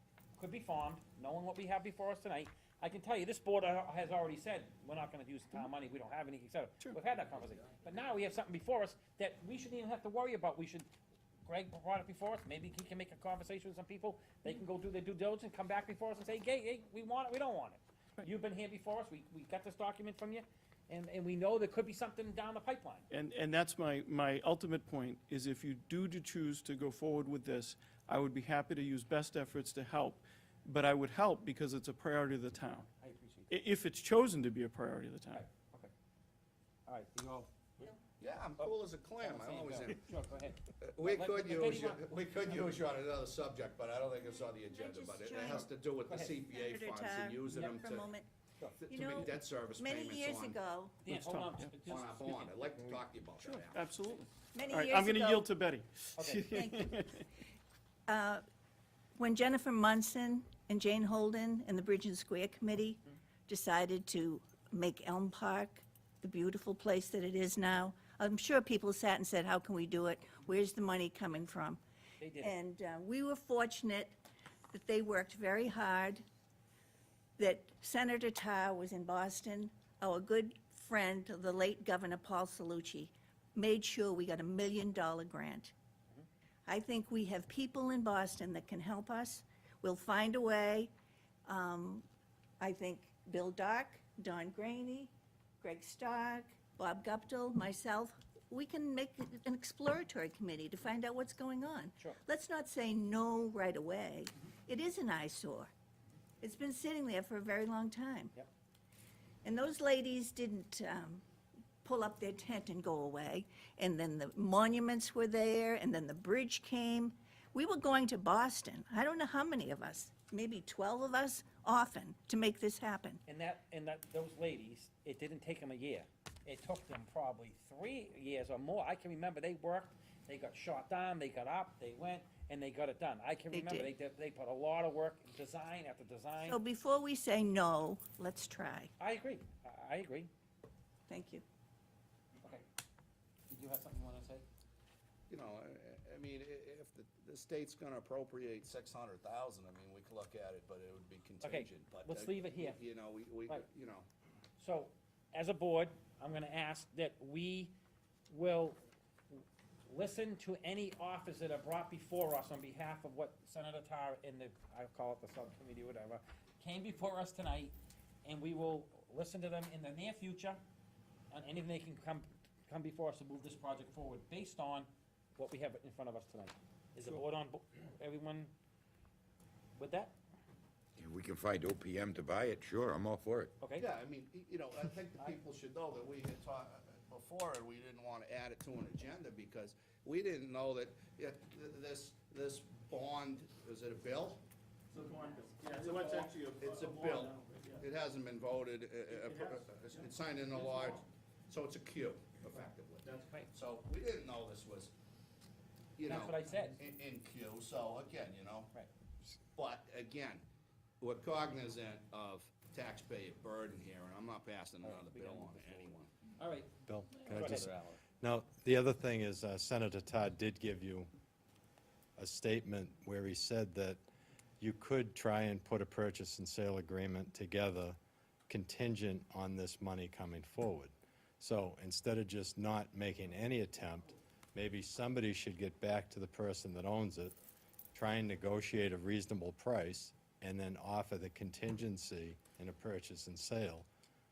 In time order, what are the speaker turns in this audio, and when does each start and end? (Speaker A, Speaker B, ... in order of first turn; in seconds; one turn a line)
Speaker A: 0.4-10.9
Speaker A: 11.4-23.1
Speaker B: 23.1-32.9
Speaker A: 33.0-33.6
Speaker B: 33.5-35.4
Speaker A: 35.3-35.9
Speaker A: 36.9-38.0
Speaker C: 38.2-40.1
Speaker A: 38.6-42.0
Speaker C: 40.8-48.1
Speaker D: 44.7-45.7
Speaker A: 46.1-46.4
Speaker D: 46.5-48.3
Speaker A: 47.5-47.8
Speaker C: 48.8-50.6
Speaker D: 48.9-51.0
Speaker A: 51.0-52.6
Speaker B: 51.1-51.7
Speaker C: 51.9-53.8
Speaker B: 53.4-57.3
Speaker D: 54.5-55.5
Speaker A: 56.2-56.5
Speaker D: 56.5-57.1
Speaker D: 58.1-58.4
Speaker D: 59.2-71.8
Speaker A: 72.2-72.5
Speaker D: 72.4-74.2
Speaker D: 74.7-76.2
Speaker D: 77.4-85.7
Speaker D: 86.7-90.9
Speaker D: 91.5-92.0
Speaker D: 92.6-105.7
Speaker D: 106.4-108.3
Speaker D: 109.4-111.2
Speaker D: 111.8-123.2
Speaker A: 123.3-136.6
Speaker D: 133.5-133.9
Speaker D: 136.4-138.9
Speaker A: 139.0-140.3
Speaker D: 141.1-141.4
Speaker A: 143.5-144.5
Speaker C: 145.3-154.1
Speaker A: 151.4-152.8
Speaker A: 154.6-157.8
Speaker A: 158.3-158.8
Speaker A: 159.9-170.6
Speaker A: 171.3-178.5
Speaker A: 179.8-180.1
Speaker E: 181.0-183.6
Speaker A: 183.6-183.9
Speaker C: 183.7-194.4
Speaker B: 194.9-197.8
Speaker C: 195.8-204.9
Speaker B: 199.1-199.7
Speaker C: 206.0-208.7
Speaker A: 206.1-206.8
Speaker C: 209.6-210.4
Speaker C: 211.0-216.1
Speaker A: 214.8-218.0
Speaker F: 216.9-221.1
Speaker F: 222.2-224.0
Speaker F: 224.6-228.0
Speaker F: 228.5-237.3
Speaker F: 237.9-243.9